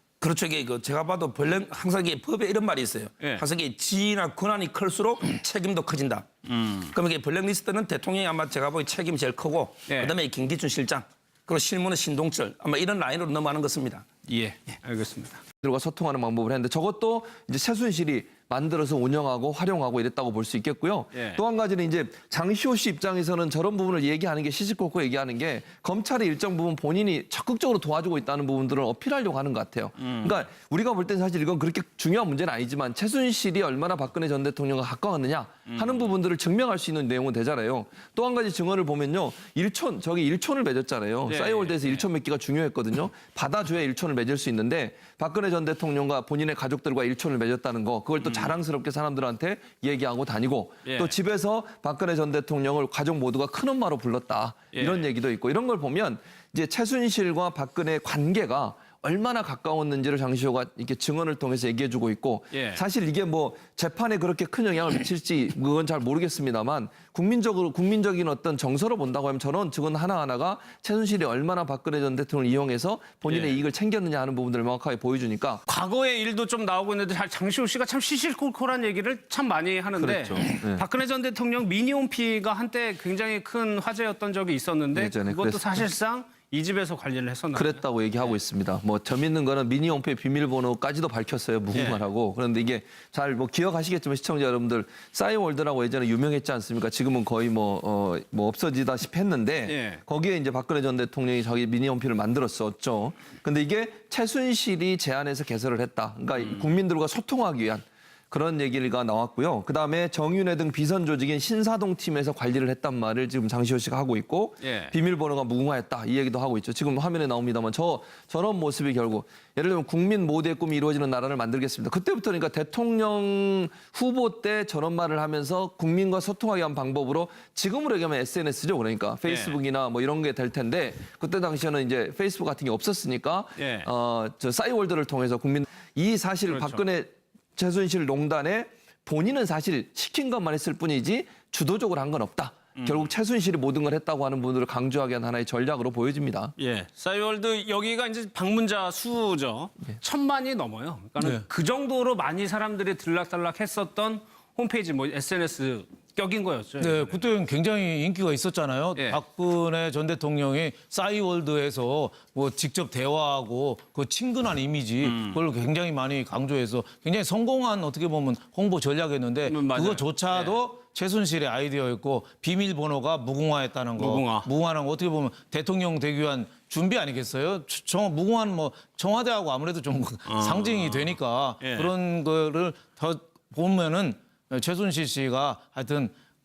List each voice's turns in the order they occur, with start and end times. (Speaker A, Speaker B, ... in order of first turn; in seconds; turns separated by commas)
Speaker A: 0.2-6.3, Speaker B: 6.5-6.9, Speaker A: 6.9-14.1, Speaker B: 9.9-10.1, Speaker B: 14.2-15.4, Speaker C: 15.6-75.6, Speaker B: 21.1-21.4, Speaker B: 30.0-30.4, Speaker B: 35.7-36.1, Speaker B: 41.3-42.0, Speaker B: 48.2-48.5, Speaker B: 50.8-51.1, Speaker B: 54.7-55.1, Speaker B: 62.5-62.8, Speaker B: 73.3-73.6, Speaker B: 75.7-87.8, Speaker C: 80.0-80.8, Speaker C: 85.0-85.8, Speaker C: 87.5-146.6, Speaker B: 91.7-92.0, Speaker B: 99.7-100.0, Speaker B: 114.6-114.9, Speaker B: 129.3-129.6, Speaker B: 133.6-133.9, Speaker B: 136.5-136.8, Speaker B: 142.8-143.1, Speaker B: 146.6-157.3, Speaker D: 156.8-186.1, Speaker B: 165.0-165.4, Speaker B: 169.5-170.6, Speaker B: 174.0-174.5, Speaker B: 180.3-181.9